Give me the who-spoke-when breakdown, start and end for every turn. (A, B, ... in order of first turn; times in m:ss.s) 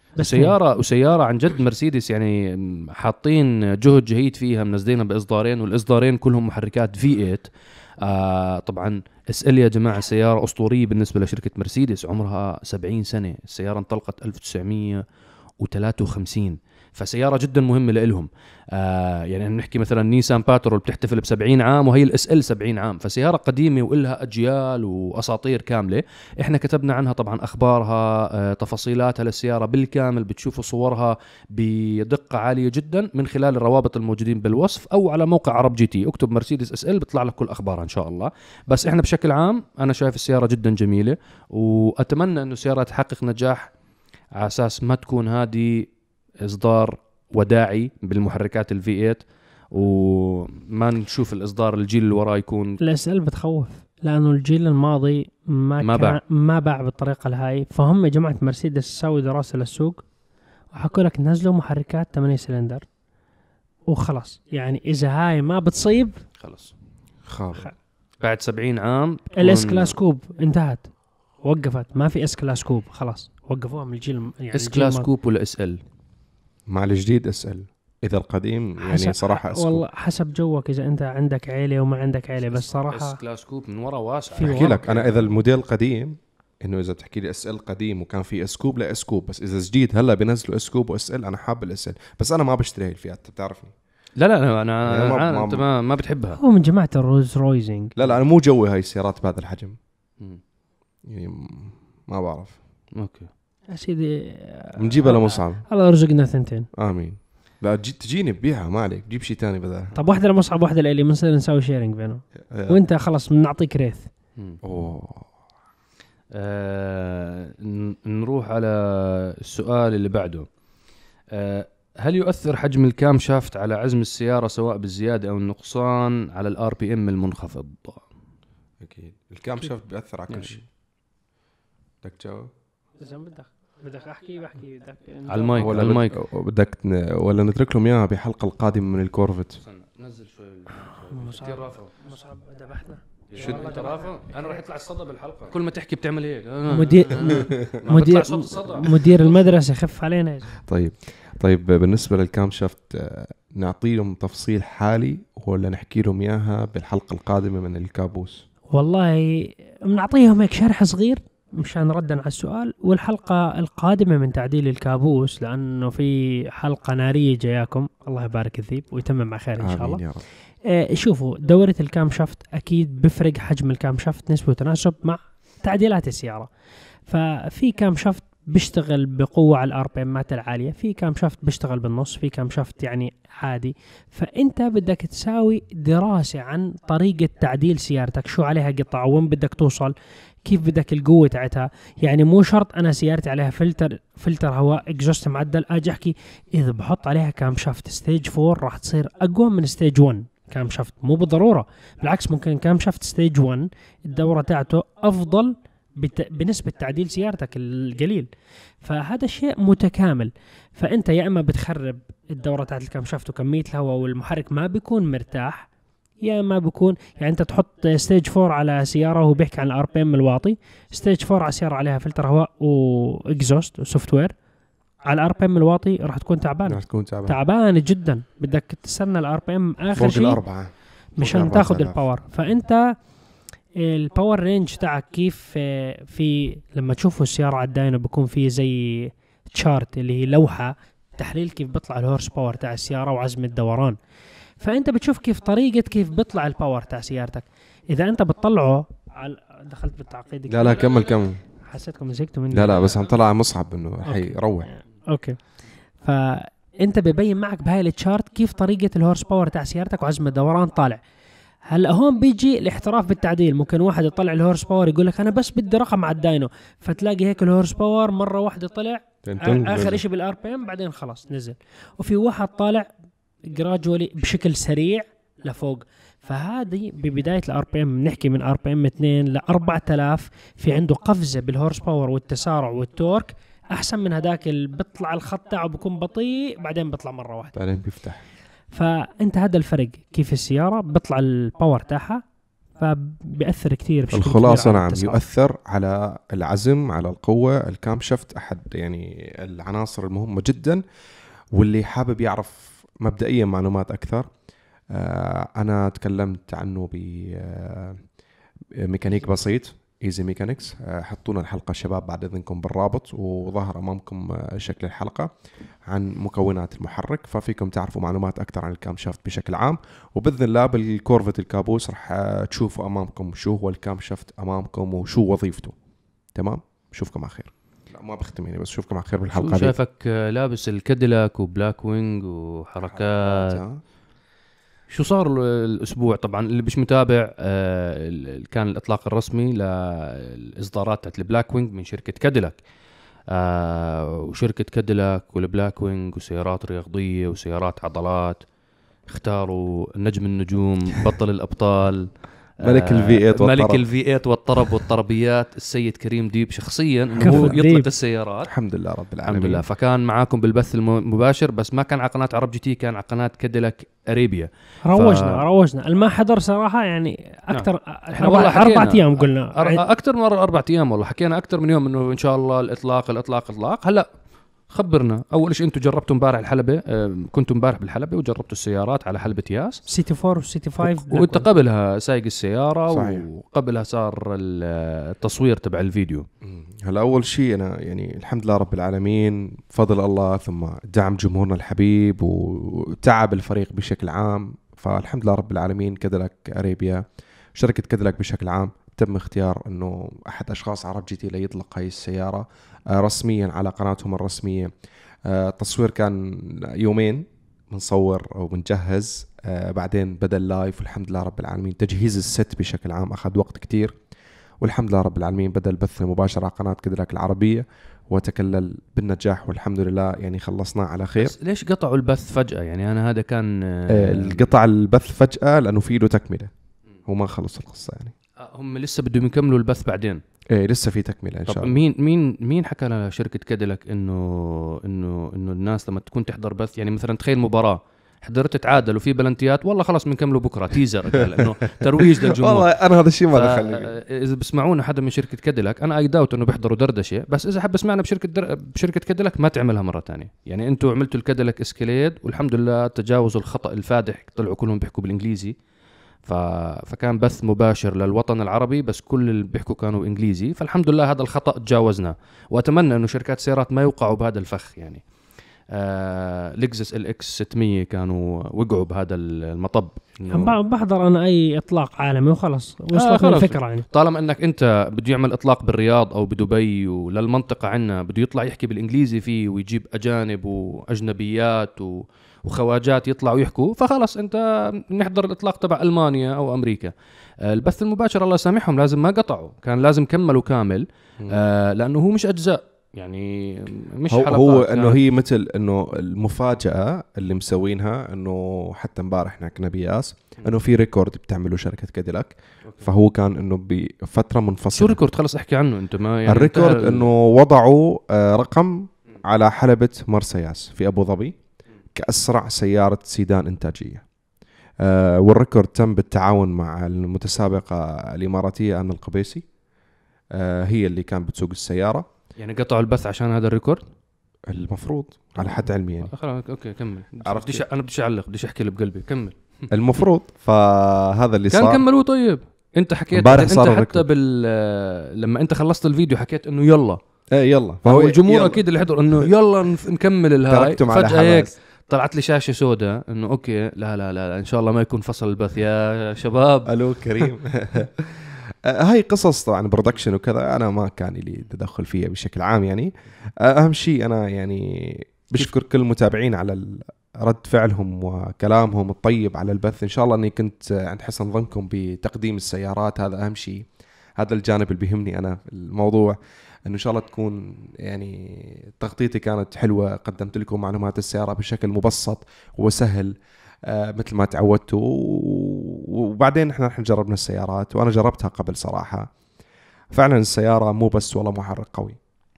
0:00.1-0:00.6 A
0:00.2-0:15.0 B
0:15.6-0:43.7 B
0:44.4-0:49.2 B
0:49.7-0:52.8 B
0:52.8-1:00.0 A
0:55.8-0:56.2 B
1:00.7-1:02.8 A
1:03.9-1:06.2 A
1:06.4-1:06.7 B
1:07.2-1:07.7 C
1:08.2-1:10.0 B
1:09.4-1:10.9 A
1:11.4-1:15.1 A
1:14.5-1:15.8 B
1:16.7-1:19.8 C
1:18.8-1:23.2 A
1:22.4-1:25.3 B
1:24.4-1:24.8 A
1:24.4-1:33.7 C
1:34.2-1:36.4 B
1:34.8-1:35.6 C
1:36.4-1:37.9 A
1:38.0-1:39.8 C
1:41.0-1:42.6 C
1:43.0-1:43.3 B
1:43.7-1:46.7 A
1:44.8-1:45.6 C
1:46.8-1:49.9 C
1:49.9-1:54.1 A
1:52.5-1:52.8 C
1:54.6-1:55.3 C
1:56.3-2:00.5 B
2:01.3-2:08.0 B
2:08.8-2:10.7 C
2:10.3-2:10.5 B
2:12.0-2:12.5 C
2:13.0-2:15.8 A
2:15.3-2:16.2 B
2:15.6-2:19.6 C
2:19.6-2:21.9 B
2:21.1-2:24.6 A
2:23.3-2:29.4 B
2:23.4-2:23.7 C
2:26.7-2:30.5 A
2:27.2-2:27.8 C
2:30.6-2:38.4 C
2:38.7-2:50.0 A
2:49.6-2:50.2 C
2:50.6-2:56.5 A
2:57.1-3:09.9 A
3:10.4-3:28.3 A
3:28.8-3:35.7 A
3:36.2-3:44.3 A
3:45.1-3:50.4 A
3:46.6-3:47.4 C
3:49.9-3:52.0 C
3:51.2-3:52.9 A
3:53.8-4:04.0 A
4:04.6-4:11.1 A
4:10.5-4:11.4 C
4:11.7-4:13.0 A
4:12.5-4:14.7 C
4:14.0-4:14.3 A
4:15.1-4:15.4 A
4:16.0-4:21.0 A
4:21.7-4:32.9 A
4:29.2-4:30.0 C
4:33.5-4:47.5 A
4:47.5-4:48.2 C
4:48.7-4:52.2 A
4:52.8-4:55.2 A
4:54.1-5:00.8 C
5:01.5-5:04.3 C
5:04.9-5:08.0 C
5:08.8-5:15.3 C
5:15.9-5:25.7 C
5:26.3-5:29.7 C
5:29.3-5:33.6 B
5:32.8-5:33.8 C
5:34.9-5:42.6 B
5:43.3-5:48.4 B
5:49.1-5:58.5 B
5:52.6-5:53.8 C
5:57.1-5:57.6 C
5:57.2-5:57.9 A
5:58.4-5:59.6 C
5:59.2-6:05.4 B
6:04.9-6:09.8 A
6:07.5-6:14.1 B
6:14.7-6:19.8 B
6:19.9-6:21.4 A
6:20.8-6:26.2 B
6:22.9-6:23.2 C
6:26.4-6:37.0 C
6:37.5-6:44.7 C
6:45.2-6:54.0 C
6:54.6-7:01.3 C
7:01.2-7:04.5 B
7:03.9-7:06.5 C
7:07.0-7:08.1 C
7:08.4-7:10.2 B
7:10.5-7:11.7 C
7:11.4-7:22.7 B
7:22.0-7:23.9 C
7:23.3-7:35.5 B
7:36.2-7:45.0 B
7:45.7-7:50.6 B
7:50.3-7:53.8 A
7:52.9-8:15.0 B
8:14.1-8:25.0 C
8:24.7-8:27.1 B
8:26.3-8:31.3 C
8:31.9-8:34.0 C
8:34.8-8:39.4 C
8:40.3-8:42.0 C
8:42.4-8:43.8 B
8:44.5-8:46.1 C
8:45.4-8:49.6 B
8:47.2-8:47.6 C
8:49.7-8:51.8 C
8:51.5-8:57.0 B
8:53.1-8:54.0 C
8:57.3-8:58.6 C
8:57.8-9:06.7 B
9:00.5-9:01.5 C
9:06.7-9:33.1 C
9:33.7-9:39.1 C
9:39.9-9:42.0 C